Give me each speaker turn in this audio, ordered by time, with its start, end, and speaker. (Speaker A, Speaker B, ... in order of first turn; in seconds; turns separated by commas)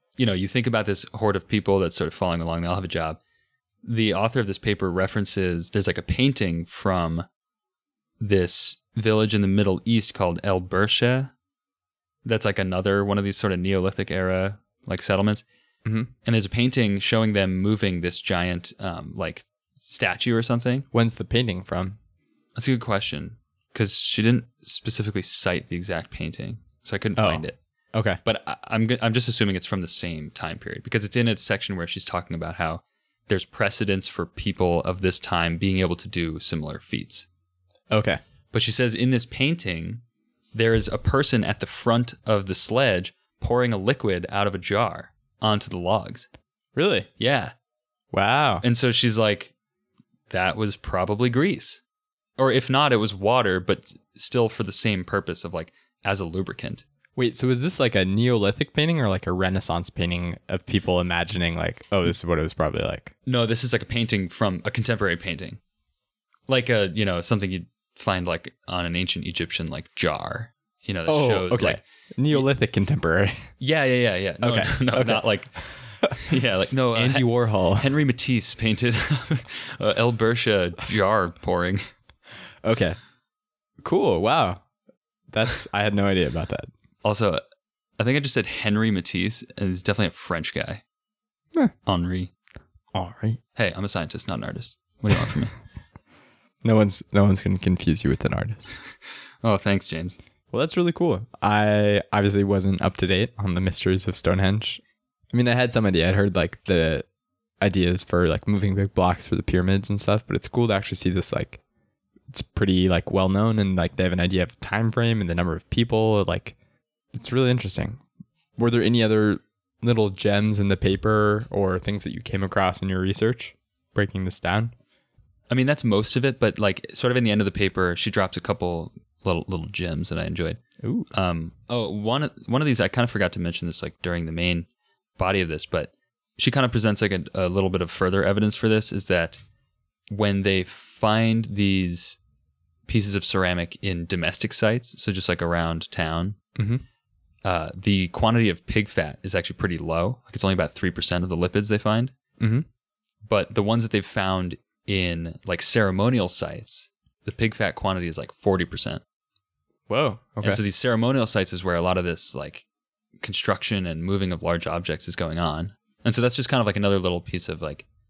Speaker A: 0.2-3.2, Speaker A: 3.8-7.3, Speaker A: 8.2-11.3, Speaker A: 12.2-15.4, Speaker B: 15.8-16.1, Speaker A: 16.2-20.9, Speaker B: 20.9-22.0, Speaker A: 22.6-27.6, Speaker B: 27.2-28.2, Speaker A: 28.2-37.3, Speaker B: 37.9-38.2, Speaker A: 38.5-40.0, Speaker A: 40.5-46.3, Speaker B: 46.7-47.1, Speaker A: 47.2-47.5, Speaker B: 48.1-48.6, Speaker A: 48.6-49.5, Speaker A: 50.3-51.8, Speaker A: 52.4-56.8, Speaker B: 57.1-63.1, Speaker A: 63.2-65.6, Speaker A: 66.5-72.5, Speaker B: 71.1-73.5, Speaker A: 73.6-75.5, Speaker B: 74.4-75.2, Speaker A: 76.1-81.8, Speaker B: 76.9-77.9, Speaker B: 82.6-83.0, Speaker B: 83.8-84.6, Speaker B: 85.3-86.7, Speaker A: 87.0-87.4, Speaker A: 88.0-90.8, Speaker A: 91.8-92.3, Speaker B: 92.9-93.4, Speaker A: 93.5-95.5, Speaker B: 96.6-98.7, Speaker A: 99.4-100.2, Speaker B: 100.5-104.8, Speaker B: 105.3-107.0, Speaker B: 107.6-111.6, Speaker B: 112.3-116.5, Speaker B: 117.1-118.0, Speaker B: 118.6-124.7, Speaker A: 125.5-139.4, Speaker B: 130.8-131.1, Speaker A: 140.1-142.2, Speaker A: 142.9-146.4, Speaker B: 146.6-146.8, Speaker A: 147.4-152.1, Speaker B: 152.4-152.7, Speaker A: 153.2-159.0, Speaker B: 159.9-160.6, Speaker A: 160.4-162.6, Speaker A: 163.2-167.8